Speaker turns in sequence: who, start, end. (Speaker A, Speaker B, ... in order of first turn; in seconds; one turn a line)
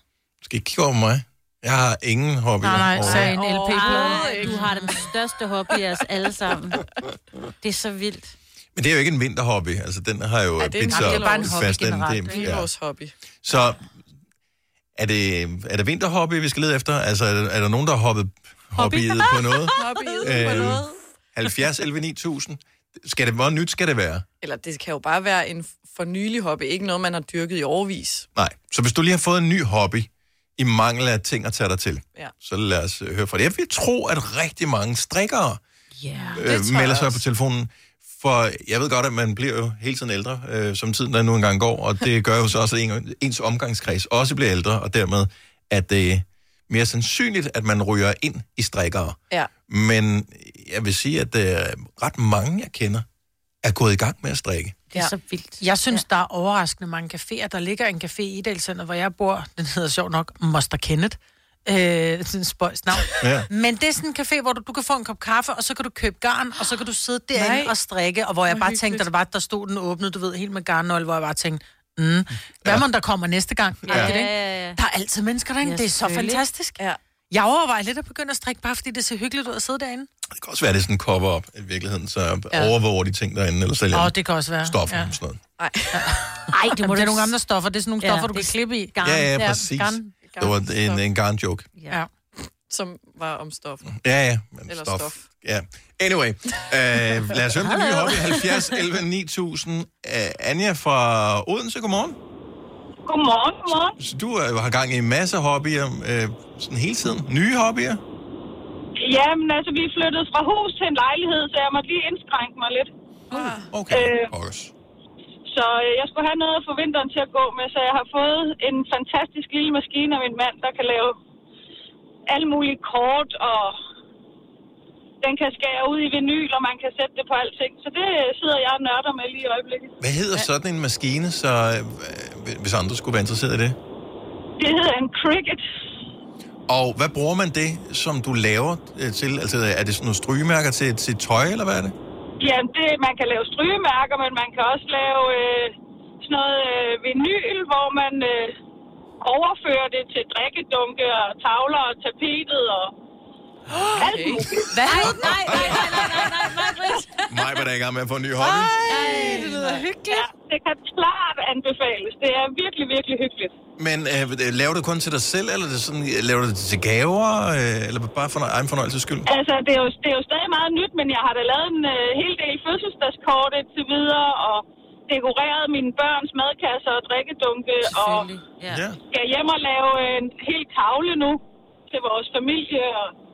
Speaker A: 0.4-3.3
Speaker B: 2.6-4.9
Speaker C: 3.0-4.8
Speaker D: 3.0-6.8
Speaker D: 7.6-8.3
Speaker A: 8.8-12.7
Speaker C: 10.6-11.7
Speaker B: 11.0-12.5
Speaker D: 11.0-11.8
Speaker C: 12.3-13.1
Speaker A: 13.4-13.9
Speaker A: 15.0-24.2
Speaker D: 18.8-19.7
Speaker C: 19.8-20.9
Speaker C: 24.4-28.3
Speaker A: 28.4-35.6
Speaker D: 36.0-36.5
Speaker A: 36.4-53.1
Speaker C: 36.5-37.2
Speaker A: 53.6-54.8
Speaker D: 54.9-56.0
Speaker B: 55.6-76.8
Speaker A: 63.2-63.5
Speaker C: 67.3-67.7
Speaker C: 68.5-69.1
Speaker D: 73.9-74.8
Speaker A: 73.9-74.2
Speaker D: 75.6-76.5
Speaker B: 77.3-80.1
Speaker A: 80.3-85.4
Speaker B: 83.9-85.2
Speaker C: 85.6-86.0
Speaker B: 85.9-90.1
Speaker D: 86.5-87.3
Speaker D: 88.0-89.6
Speaker A: 89.0-91.7
Speaker C: 90.2-91.0
Speaker D: 91.8-92.0
Speaker C: 92.7-93.9
Speaker A: 93.9-102.2
Speaker C: 94.7-95.2
Speaker D: 97.6-98.8
Speaker E: 103.1-104.0
Speaker A: 104.0-108.0
Speaker E: 109.0-112.9
Speaker C: 113.3-113.7
Speaker A: 113.7-114.7
Speaker E: 113.9-114.3
Speaker E: 115.5-121.2
Speaker E: 122.3-123.8
Speaker E: 125.2-129.9
Speaker A: 130.0-133.8
Speaker E: 134.6-135.6
Speaker A: 136.7-141.9
Speaker E: 142.4-148.6
Speaker E: 149.2-152.9
Speaker C: 154.0-154.5
Speaker E: 154.0-154.4
Speaker D: 154.6-157.6
Speaker A: 155.0-156.1
Speaker A: 157.3-158.7
Speaker D: 158.4-160.3
Speaker B: 158.9-159.8
Speaker C: 159.0-159.5
Speaker E: 160.1-163.5
Speaker A: 163.8-169.3
Speaker E: 169.3-178.3
Speaker D: 177.8-178.8
Speaker A: 178.7-179.0
Speaker E: 179.1-183.1